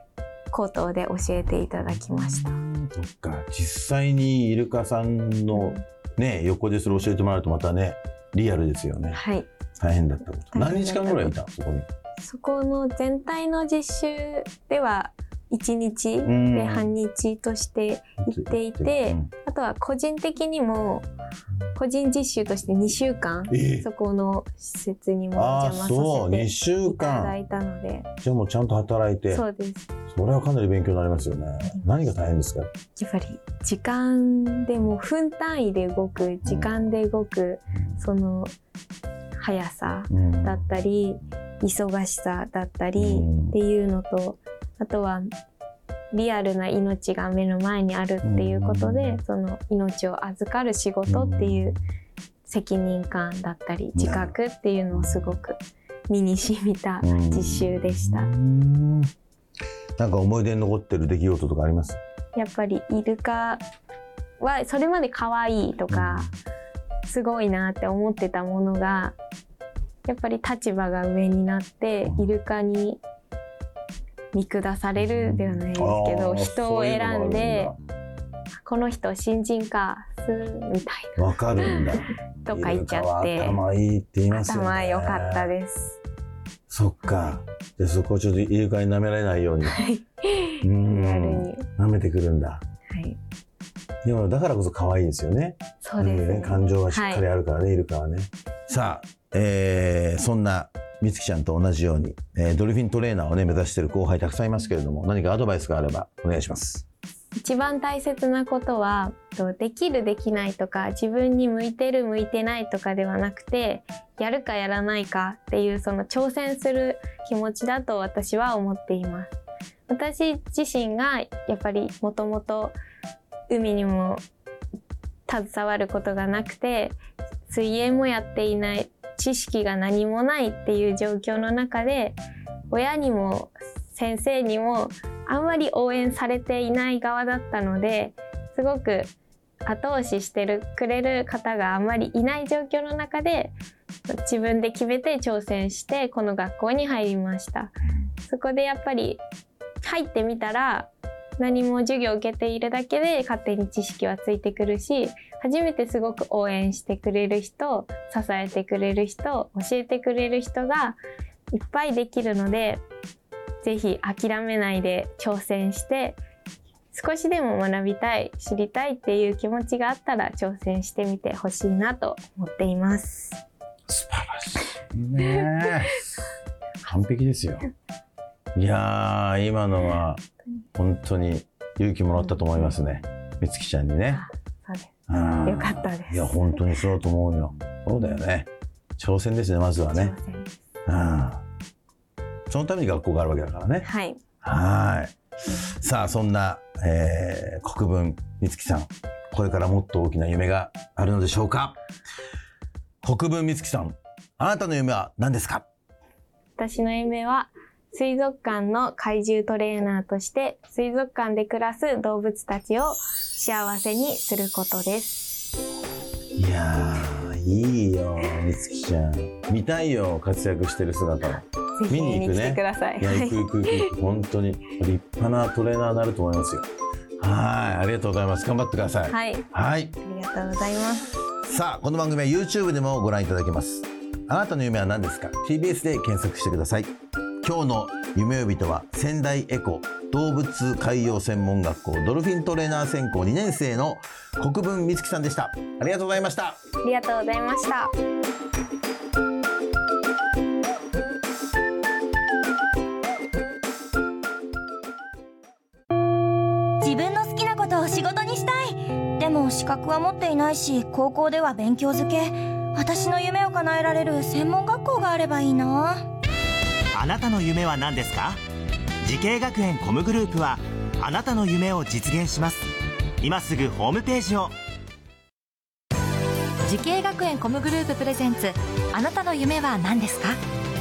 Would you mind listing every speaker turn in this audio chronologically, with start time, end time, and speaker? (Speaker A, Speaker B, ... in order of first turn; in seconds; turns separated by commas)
Speaker A: 0.5-2.6, Speaker B: 1.8-9.2, Speaker A: 5.5-5.8, Speaker A: 9.1-9.5, Speaker B: 9.8-11.9, Speaker A: 10.5-11.3, Speaker A: 12.2-21.1, Speaker B: 16.2-16.9, Speaker B: 18.2-19.3, Speaker A: 21.7-28.1, Speaker B: 23.5-23.9, Speaker B: 25.3-27.3, Speaker B: 28.2-29.4, Speaker A: 29.3-29.9, Speaker B: 30.1-32.7, Speaker A: 33.0-38.5, Speaker B: 36.4-36.8, Speaker A: 39.4-45.2, Speaker B: 40.1-40.6, Speaker B: 43.0-43.5, Speaker A: 46.1-51.8, Speaker B: 48.2-49.2, Speaker B: 51.1-51.8, Speaker A: 52.5-58.3, Speaker B: 53.9-54.3, Speaker B: 54.9-55.2, Speaker B: 57.0-59.1, Speaker B: 60.0-62.0, Speaker A: 62.3-63.6, Speaker A: 64.4-66.3, Speaker B: 65.9-66.3, Speaker A: 67.0-69.2, Speaker A: 70.0-73.0, Speaker A: 74.3-77.7, Speaker B: 75.0-77.8, Speaker A: 78.6-83.6, Speaker B: 81.2-85.5, Speaker A: 84.3-86.0, Speaker B: 86.7-89.8, Speaker A: 89.6-91.7, Speaker B: 90.6-92.6, Speaker A: 92.9-93.2, Speaker B: 94.0-106.8, Speaker A: 95.8-97.2, Speaker A: 107.4-119.3, Speaker A: 119.9-122.8, Speaker A: 123.5-124.2, Speaker A: 125.3-127.0, Speaker A: 127.5-132.2, Speaker A: 132.7-139.1, Speaker A: 139.7-143.5, Speaker A: 144.1-147.7, Speaker A: 148.2-149.2, Speaker A: 149.8-161.0, Speaker A: 161.5-162.8, Speaker A: 163.6-166.2, Speaker A: 166.9-173.4, Speaker B: 173.9-176.1, Speaker B: 176.8-177.7, Speaker B: 178.5-180.2, Speaker B: 180.8-184.2, Speaker A: 184.1-184.9, Speaker B: 185.1-190.1, Speaker A: 185.4-186.3, Speaker A: 189.9-190.5, Speaker B: 190.8-191.4, Speaker B: 192.5-193.9, Speaker A: 193.8-194.2, Speaker B: 194.4-195.1, Speaker B: 195.7-201.8, Speaker B: 203.0-205.7, Speaker A: 206.6-215.5, Speaker B: 216.3-226.7, Speaker A: 221.7-223.9, Speaker B: 227.2-229.9, Speaker A: 229.1-229.4, Speaker A: 230.0-231.1, Speaker B: 231.4-236.9, Speaker B: 237.4-246.6, Speaker A: 246.8-247.9, Speaker C: 256.8-266.0, Speaker D: 266.9-268.4, Speaker D: 269.0-272.7, Speaker D: 273.2-274.5, Speaker E: 276.6-280.4